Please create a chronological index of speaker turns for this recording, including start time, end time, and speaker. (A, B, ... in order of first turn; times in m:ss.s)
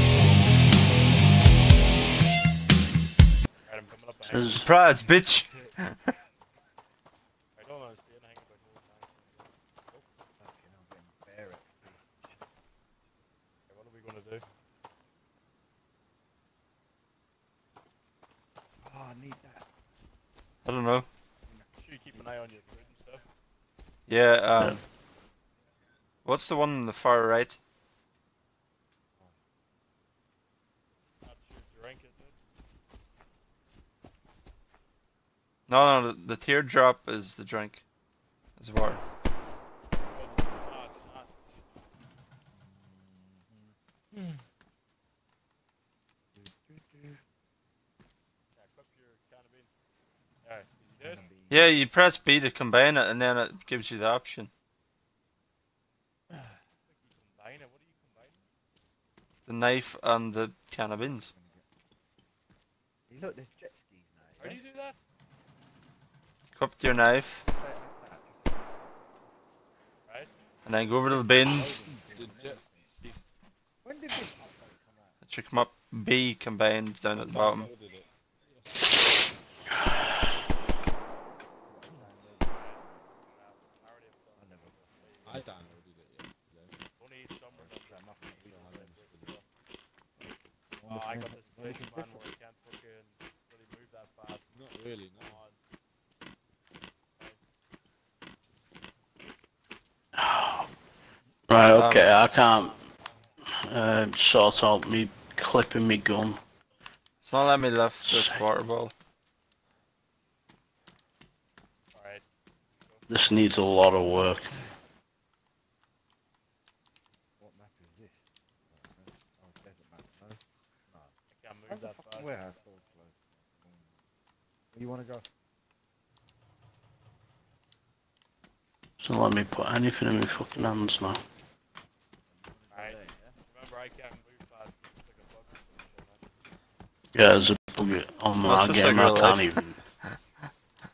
0:03.6-0:04.6 A
0:04.3-0:04.6 B
0:04.6-0:06.0 C
0:07.6-0:09.5 A
0:09.9-0:12.3 D
0:13.7-0:14.4 A
0:18.8-0:19.7 D
0:20.6-0:21.1 C
0:21.4-0:22.7 D
0:21.8-0:23.2 A
0:24.1-0:24.8 C
0:26.2-0:27.6 C
0:29.1-0:29.4 D
0:31.2-0:32.4 A
0:35.7-0:37.8 C
0:38.6-0:39.0 C
0:40.0-0:41.4 A
0:42.5-0:44.4 D
0:46.3-0:47.2 D
0:48.5-0:49.7 A
0:50.4-0:51.2 A
0:50.8-0:51.8 D
0:51.5-0:54.5 C
0:56.3-0:56.6 D
0:56.9-0:58.5 A
0:59.5-1:01.3 C
1:00.9-1:01.6 D
1:03.1-1:04.6 D
1:04.4-1:05.0 A
1:06.5-1:07.4 C
1:07.4-1:08.9 D
1:10.1-1:10.3 A
1:10.6-1:11.8 C
1:11.1-1:13.1 D
1:12.1-1:12.6 E
1:13.8-1:15.2 D
1:15.2-1:17.7 C
1:17.3-1:19.0 E
1:21.6-1:23.1 D
1:22.5-1:25.5 A
1:24.4-1:25.2 D
1:25.2-1:26.8 E
1:27.0-1:29.4 A
1:27.5-1:29.1 D
1:29.1-1:29.3 E
1:30.7-1:32.2 D
1:30.9-1:34.6 A
1:34.5-1:35.4 E
1:35.2-1:35.6 A
1:40.2-1:40.7 B
1:41.5-1:42.8 B
1:41.7-1:42.1 C
1:43.6-1:46.4 B
1:47.2-1:48.9 C
1:48.0-1:48.4 B
1:51.9-1:52.2 A
1:52.8-1:53.0 A
1:53.1-1:54.5 B
1:57.4-2:01.1 D
2:01.3-2:02.9 A
2:01.7-2:04.0 D
2:04.7-2:05.3 D
2:09.0-2:11.2 B
2:12.2-2:13.4 D
2:12.7-2:16.3 A
2:17.1-2:19.8 B
2:18.4-2:19.5 C